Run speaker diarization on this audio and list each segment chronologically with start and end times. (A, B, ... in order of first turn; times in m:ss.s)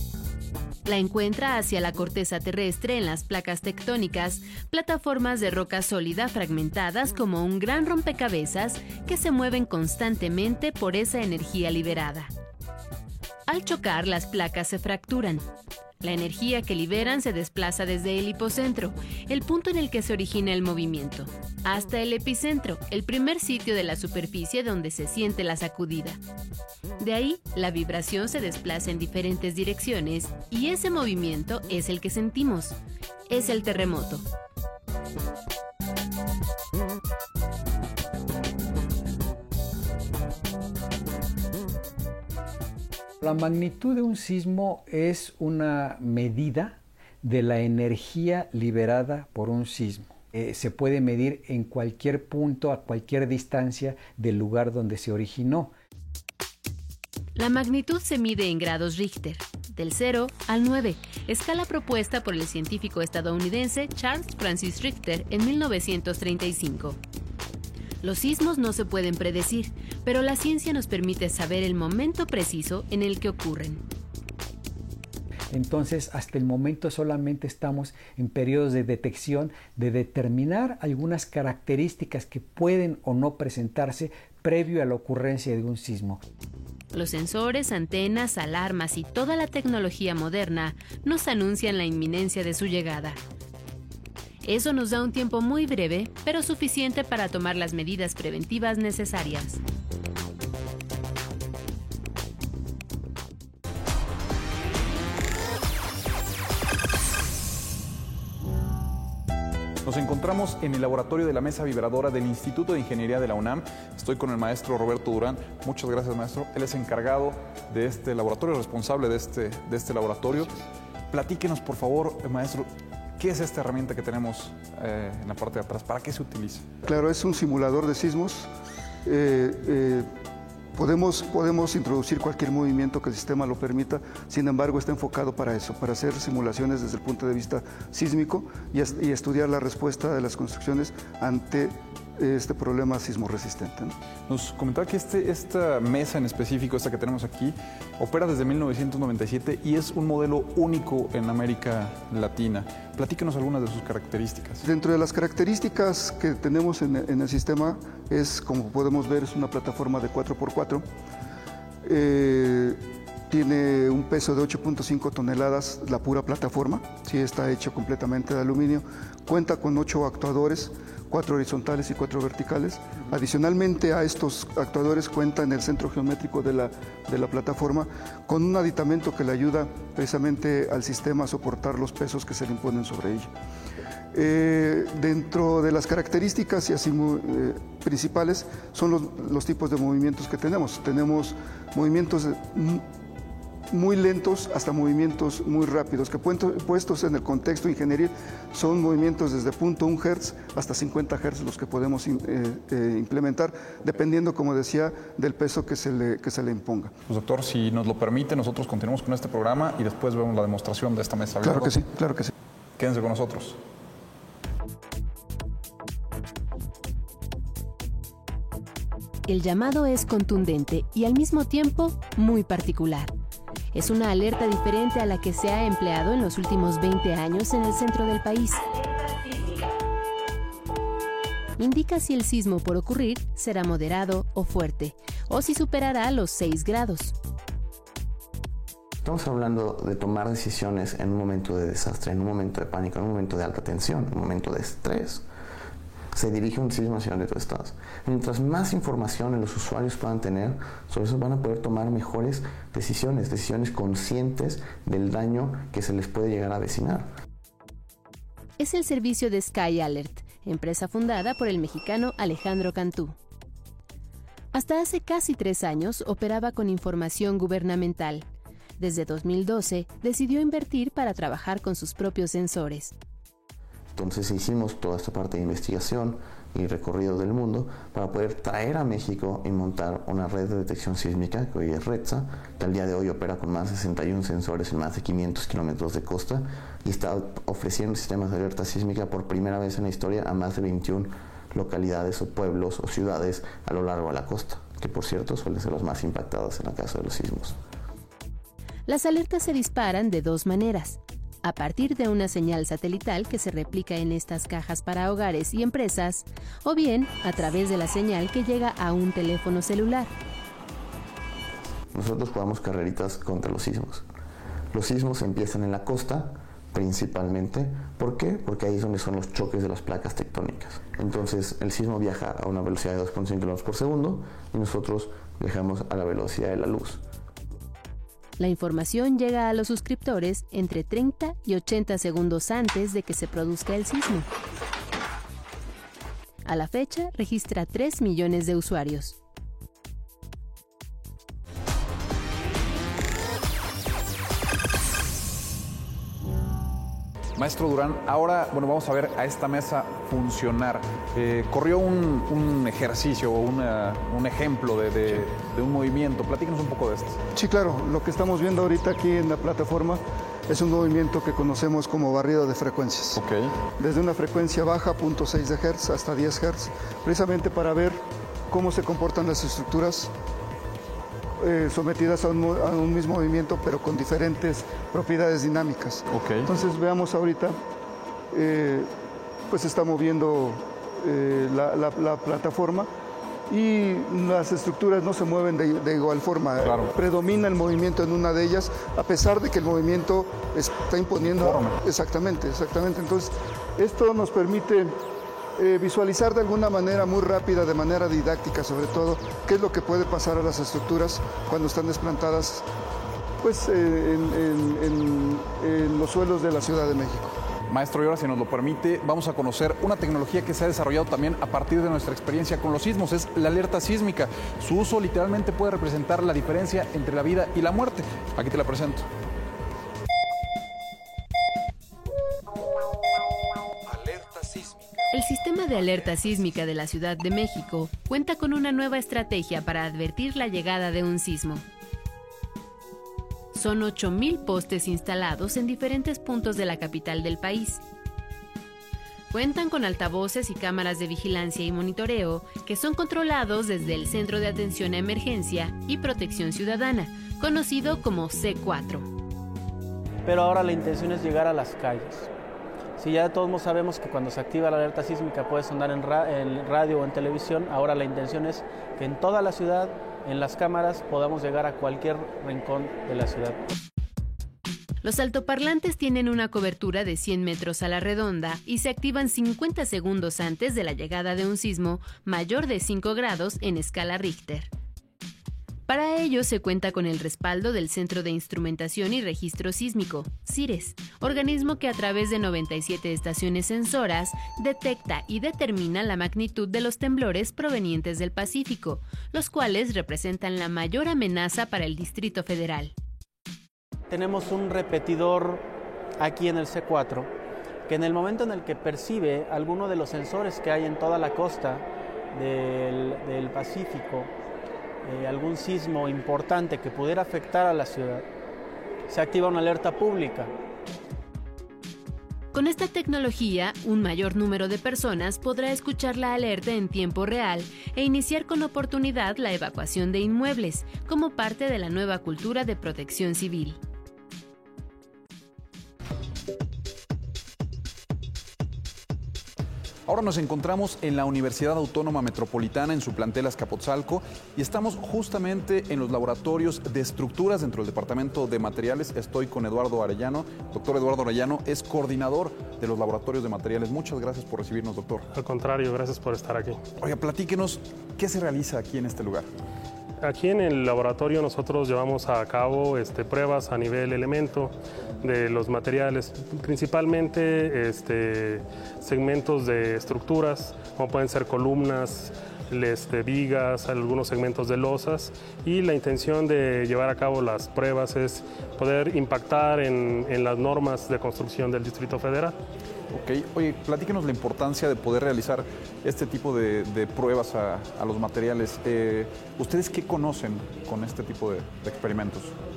0:00.8-0:12.3 A
0:13.5-0:15.4 A
0:16.0-0:26.2 A
0:27.0-0:32.8 A
0:33.3-0:34.2 A
0:43.2-0:55.7 B
0:57.4-1:07.0 A
1:08.0-1:13.8 A
1:15.5-1:26.2 B
1:26.9-1:33.2 A
1:34.4-1:39.6 A
1:49.8-2:00.5 C
2:01.1-2:06.6 C
2:06.8-2:08.5 D
2:09.0-2:10.1 D
2:10.8-2:23.9 D
2:24.3-2:34.6 C
2:34.6-2:40.8 D
2:41.8-3:03.3 D
3:04.1-3:12.8 D
3:13.7-3:26.9 D
3:27.1-3:31.8 C
3:31.4-3:32.3 D
3:32.8-3:33.6 C
3:39.3-3:43.1 A
3:43.7-3:48.7 A
3:51.6-3:57.1 A
3:59.0-4:05.2 E
4:06.1-4:17.1 E
4:18.6-4:23.1 A
4:24.5-4:28.2 A
4:28.8-4:32.9 A
4:33.9-4:57.6 E
4:58.9-5:10.1 A
5:11.9-5:14.0 E
5:14.7-5:27.0 E
5:28.4-5:34.3 A
5:36.4-5:39.2 A
5:47.4-5:57.2 C
5:57.3-6:03.2 D
6:03.1-6:03.5 C
6:03.8-6:10.1 D
6:11.4-6:17.6 D
6:16.1-6:16.5 C
6:18.3-6:18.9 D
6:19.5-6:22.9 D
6:23.5-6:35.0 D
6:26.6-6:26.9 C
6:31.4-6:31.8 C
6:35.6-6:42.6 D
6:43.4-6:47.4 D
6:47.7-6:59.0 C
7:05.1-7:11.6 A
7:13.5-7:17.8 A
7:19.3-7:29.1 A
7:30.2-7:32.3 F
7:33.0-7:43.6 F
7:45.0-7:54.7 A
7:55.9-8:12.9 A
8:14.1-8:15.6 F
8:16.2-8:17.3 F
8:17.9-8:24.3 F
8:25.0-8:28.2 F
8:29.1-8:30.5 F
8:32.5-8:43.8 A
8:50.1-9:05.2 C
9:05.3-9:06.8 G
9:07.0-9:09.5 C
9:10.2-9:32.5 G
9:33.1-9:42.5 C